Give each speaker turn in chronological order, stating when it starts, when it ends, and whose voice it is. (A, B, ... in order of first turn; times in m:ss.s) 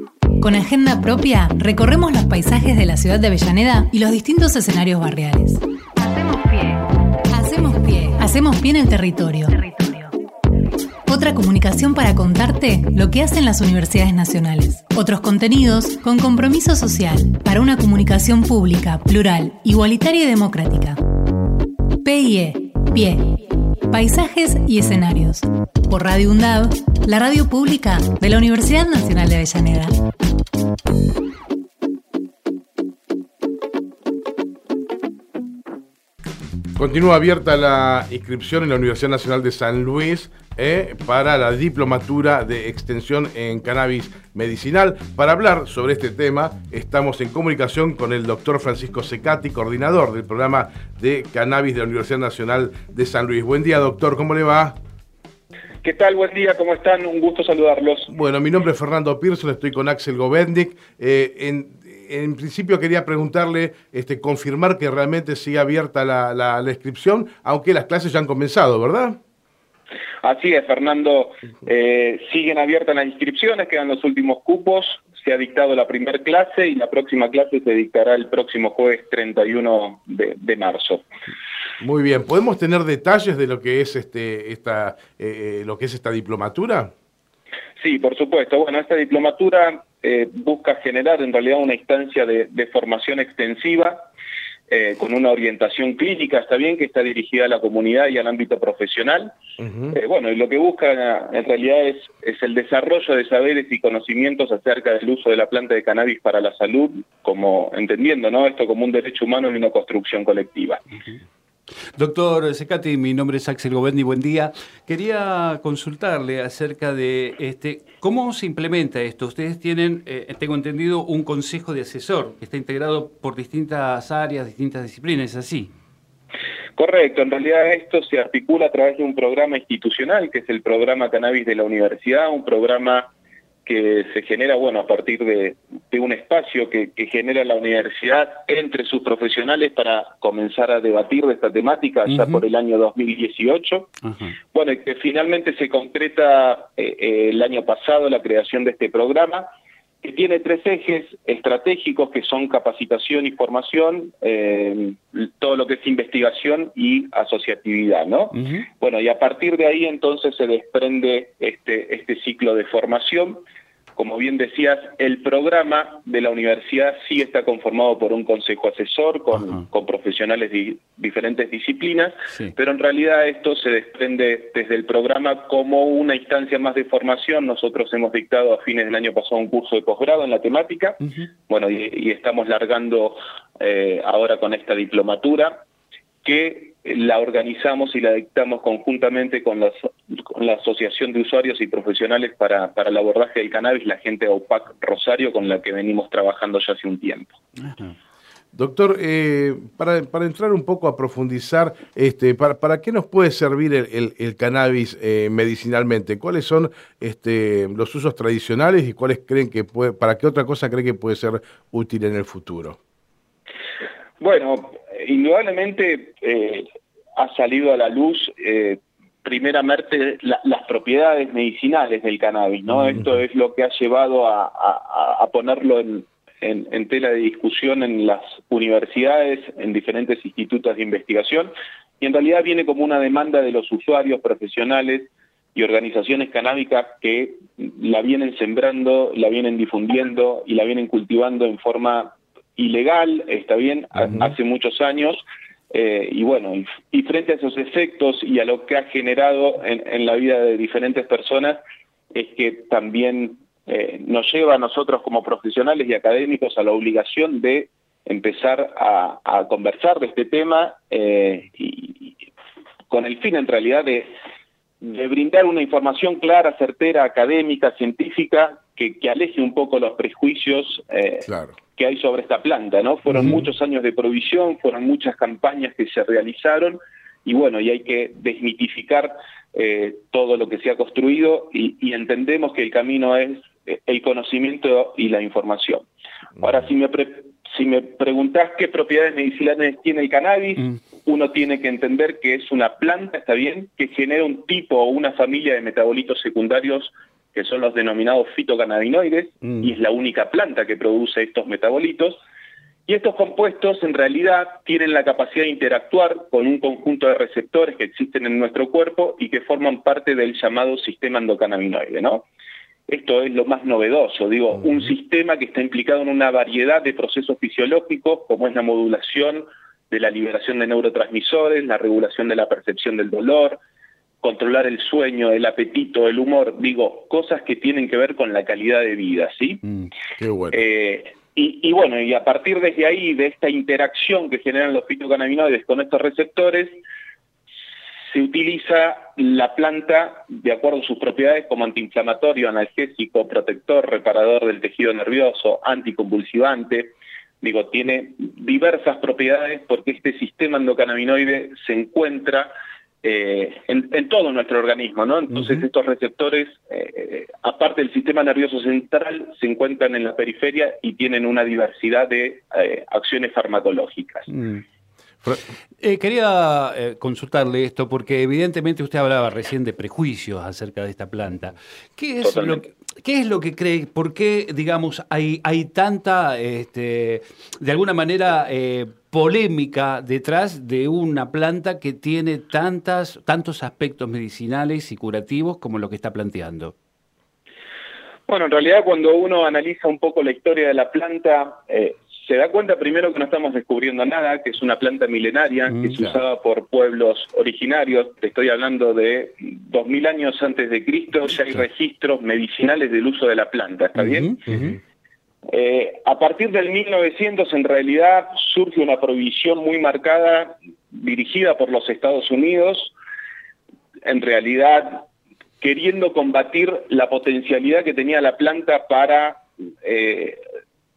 0:00.4-0:10.1 A
0:11.0-0:21.0 A
0:22.0-0:23.4 A
0:23.9-0:29.9 A
0:36.8-0:54.7 B
0:55.8-0:58.1 C
0:58.1-1:09.2 B
1:10.2-1:21.0 C
1:21.8-1:26.9 B
1:27.8-1:34.1 C
1:34.7-1:39.4 C
1:39.6-1:39.9 B
1:39.9-1:50.8 C
1:52.0-2:05.7 D
2:06.8-2:13.1 C
2:13.6-2:23.9 C
2:22.1-2:22.4 D
2:24.0-2:24.4 D
2:24.5-2:29.5 C
2:30.0-2:43.4 C
2:38.3-2:38.6 D
2:44.0-3:05.6 C
3:01.0-3:01.3 D
3:06.2-3:17.3 C
3:17.6-3:17.9 D
3:18.5-3:32.8 B
3:34.2-3:36.6 C
3:37.2-4:11.6 C
4:12.1-4:22.2 C
4:22.9-4:24.1 C
4:24.8-4:45.8 C
4:31.2-4:31.6 B
4:33.1-4:33.4 D
4:46.4-5:02.2 C
4:59.4-4:59.7 D
5:02.9-5:12.2 C
5:12.9-5:23.6 C
5:24.2-5:29.6 C
5:30.2-5:30.6 B
5:30.5-5:36.8 C
5:38.1-5:52.5 C
5:53.0-6:04.3 C
5:55.3-5:55.6 D
6:04.3-6:04.6 D
6:05.8-6:26.7 D
6:12.2-6:12.6 C
6:28.3-6:44.4 C
6:35.7-6:36.0 D
6:44.0-6:44.8 D
6:44.5-6:44.8 B
6:45.5-6:52.9 C
6:54.0-6:55.1 C
6:55.6-7:00.4 C